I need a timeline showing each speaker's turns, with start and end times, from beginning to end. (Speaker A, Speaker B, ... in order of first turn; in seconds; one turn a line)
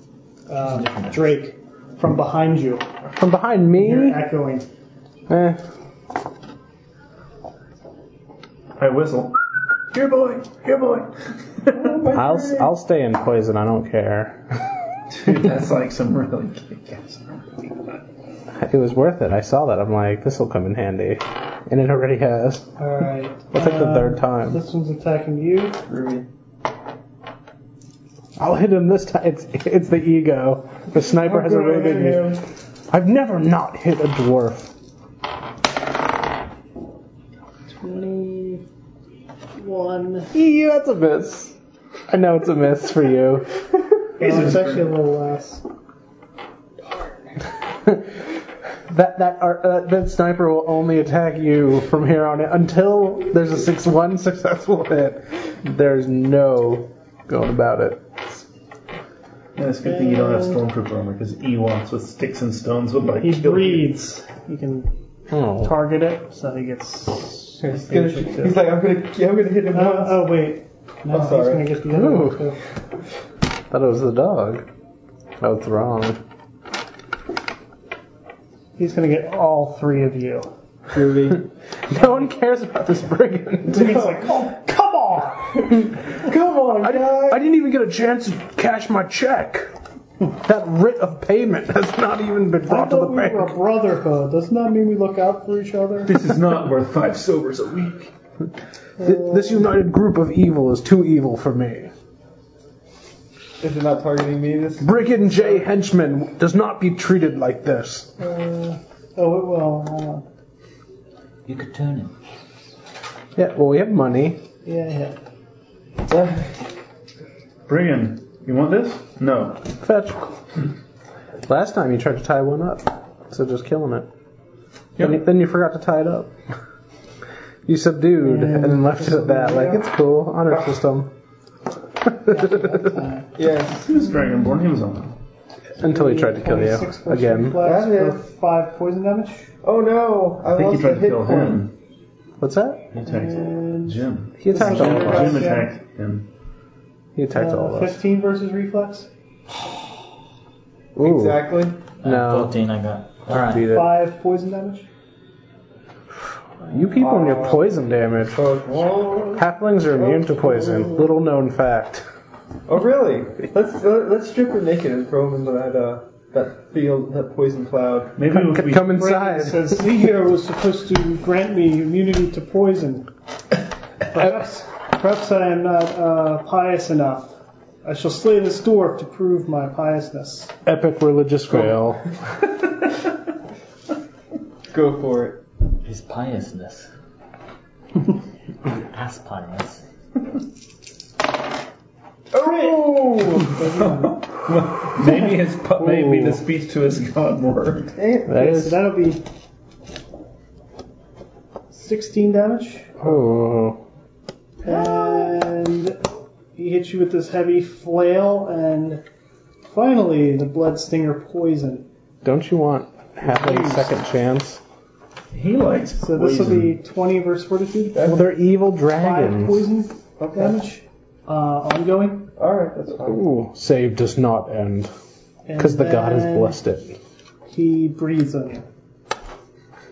Speaker A: 0.5-2.9
Speaker B: 0.7-1.3
Speaker C: 3.1-4.2
Speaker A: 3.7-4.7
Speaker C: 5.3-5.6
Speaker D: 8.8-9.3
Speaker D: 9.9-12.0
Speaker E: 11.7-12.7
Speaker C: 12.1-14.7
Speaker D: 15.1-18.0
Speaker C: 18.6-22.7
Speaker A: 22.8-25.8
Speaker C: 23.5-24.6
Speaker E: 25.9-26.3
Speaker C: 28.4-34.7
Speaker E: 30.9-32.4
Speaker A: 37.7-38.6
Speaker A: 39.5-40.3
Speaker C: 40.3-41.5
Speaker C: 42.1-43.5
Speaker D: 44.2-44.9
Speaker A: 44.2-45.6
Speaker A: 46.8-47.3
Speaker C: 47.8-48.1
Speaker C: 48.9-58.2
Speaker D: 59.5-64.0
Speaker A: 59.8-60.6
Speaker A: 63.2-64.9
Speaker C: 65.3-65.7
Speaker A: 65.5-68.6
Speaker E: 67.6-70.3
Speaker A: 69.7-72.6
Speaker E: 71.1-71.7
Speaker C: 71.9-72.5
Speaker C: 73.7-74.7
Speaker C: 75.4-76.2
Speaker A: 78.8-80.5
Speaker E: 80.9-81.5
Speaker C: 81.9-84.0
Speaker A: 83.7-85.7
Speaker E: 83.8-84.2
Speaker E: 85.7-87.4
Speaker C: 86.8-89.7
Speaker C: 90.3-93.5
Speaker A: 92.7-96.1
Speaker D: 96.0-98.1
Speaker A: 99.0-99.5
Speaker C: 99.0-101.9
Speaker E: 103.6-104.9
Speaker C: 104.8-108.2
Speaker A: 108.2-110.2
Speaker B: 111.5-112.1
Speaker C: 113.3-114.4
Speaker A: 114.6-115.2
Speaker E: 116.1-116.5
Speaker D: 117.7-119.7
Speaker C: 119.8-120.4
Speaker C: 121.5-124.1
Speaker C: 125.0-126.3
Speaker C: 127.7-131.1
Speaker A: 128.2-129.8
Speaker C: 132.0-132.9
Speaker A: 132.3-133.3
Speaker E: 133.3-133.9
Speaker D: 133.8-135.2
Speaker C: 135.8-137.6
Speaker A: 135.8-139.5
Speaker E: 137.6-138.2
Speaker E: 139.6-141.6
Speaker D: 140.5-141.7
Speaker C: 142.4-142.9
Speaker D: 142.9-146.3
Speaker A: 143.0-145.7
Speaker C: 144.4-145.5
Speaker C: 147.1-148.0
Speaker A: 147.3-149.1
Speaker C: 150.9-151.5
Speaker E: 151.0-151.8
Speaker B: 152.0-153.7
Speaker C: 152.0-152.5
Speaker C: 153.3-153.9
Speaker A: 153.7-154.9
Speaker C: 156.7-158.4
Speaker E: 156.9-157.7
Speaker E: 158.3-161.1
Speaker C: 159.4-162.0
Speaker E: 162.7-168.2
Speaker D: 168.2-169.0
Speaker C: 168.3-170.0
Speaker A: 168.9-173.1
Speaker A: 174.1-180.5
Speaker C: 180.6-182.2
Speaker E: 184.7-185.4
Speaker B: 185.8-186.9
Speaker B: 188.7-189.8
Speaker E: 192.3-193.6
Speaker A: 192.4-194.2
Speaker D: 193.7-198.0
Speaker C: 195.8-196.4
Speaker E: 197.9-198.7
Speaker C: 198.3-198.8
Speaker A: 198.3-199.2
Speaker A: 201.7-203.0
Speaker C: 203.0-203.8
Speaker E: 204.6-205.3
Speaker A: 204.6-206.0
Speaker A: 206.6-209.0
Speaker A: 209.6-211.9
Speaker C: 212.2-214.6
Speaker A: 213.2-213.9
Speaker D: 215.3-216.8
Speaker A: 216.0-218.2
Speaker E: 217.9-218.3
Speaker C: 218.0-219.7
Speaker A: 218.9-222.3
Speaker E: 220.2-220.6
Speaker E: 222.4-223.2
Speaker C: 223.0-224.9
Speaker A: 225.4-226.6
Speaker C: 225.6-226.9
Speaker A: 227.5-228.7